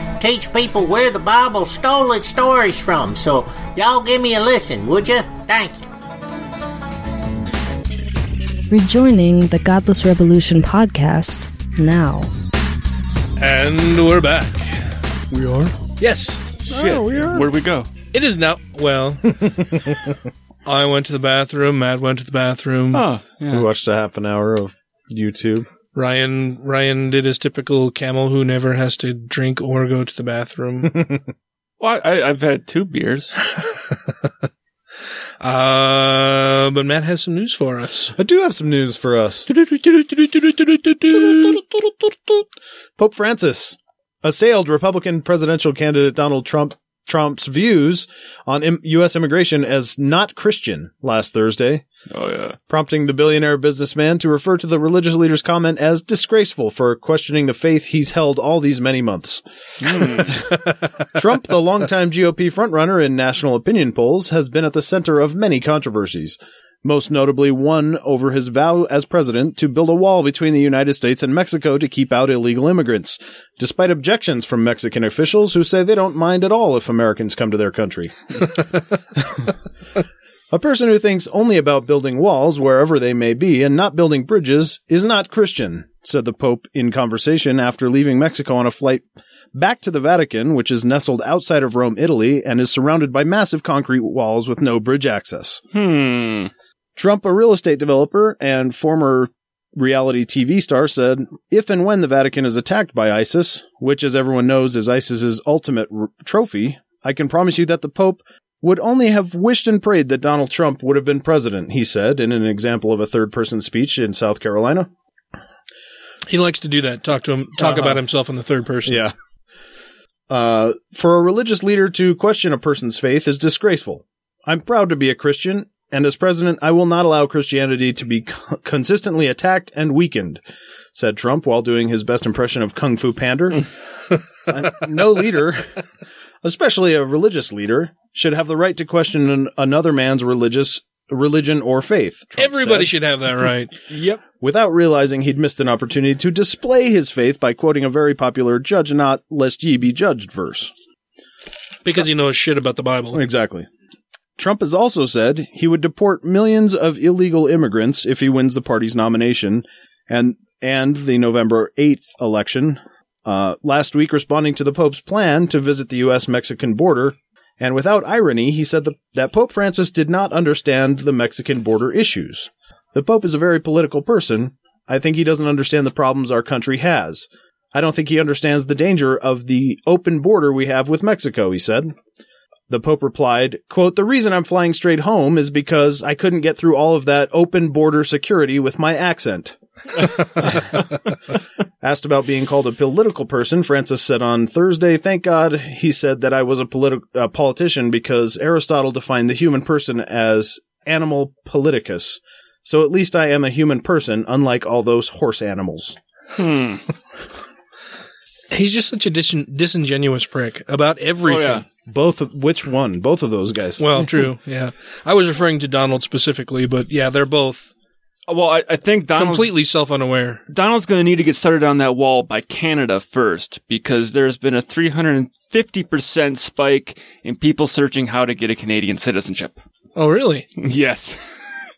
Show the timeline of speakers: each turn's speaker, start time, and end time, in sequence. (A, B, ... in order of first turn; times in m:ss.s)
0:00.2-0:05.9 A
0:08.7-0:12.3 B
0:13.4-0:14.8 C
0:15.3-0:15.7 D
0:16.0-0:16.6 C
0:16.7-0:17.5 D
0:16.7-0:17.9 E
0:18.1-0:19.4 C
0:19.4-0:20.0 D
0:20.6-0:23.1 C
0:22.9-0:23.7 E
0:23.5-0:25.6 D
0:25.9-0:31.0 C
0:30.9-0:31.2 D
0:31.8-0:33.3 E
0:35.4-0:38.1 C
0:38.2-0:39.5 D
0:39.5-0:41.6 C
0:43.0-0:51.8 D
0:52.1-0:52.6 E
0:52.7-0:59.4 D
0:59.8-1:00.4 E
1:00.0-1:00.6 D
1:01.1-1:18.6 D
1:19.2-1:19.5 D
1:20.5-1:35.6 D
1:35.7-1:36.5 E
1:37.0-1:54.9 D
1:56.3-1:59.0 C
1:57.6-1:58.0 D
1:58.9-1:59.1 D
2:00.3-2:10.4 D
2:10.9-2:13.6 D
2:14.5-2:15.7 D
2:16.4-2:22.9 D
2:22.4-2:23.7 C
2:23.9-2:24.2 E
2:24.3-2:30.7 D
2:31.8-2:33.2 C
2:33.1-2:33.7 D
2:34.4-3:01.9 D
3:02.7-3:09.6 D
3:10.4-3:10.8 D
3:11.8-3:26.0 D
3:26.4-3:26.8 E
3:28.5-3:31.6 C
3:31.2-3:31.6 E
3:31.8-3:34.2 D
3:33.8-3:37.7 C
3:38.3-3:39.5 E
3:39.1-3:40.4 C
3:40.5-3:49.6 E
3:50.0-3:50.5 C
3:50.6-3:51.2 E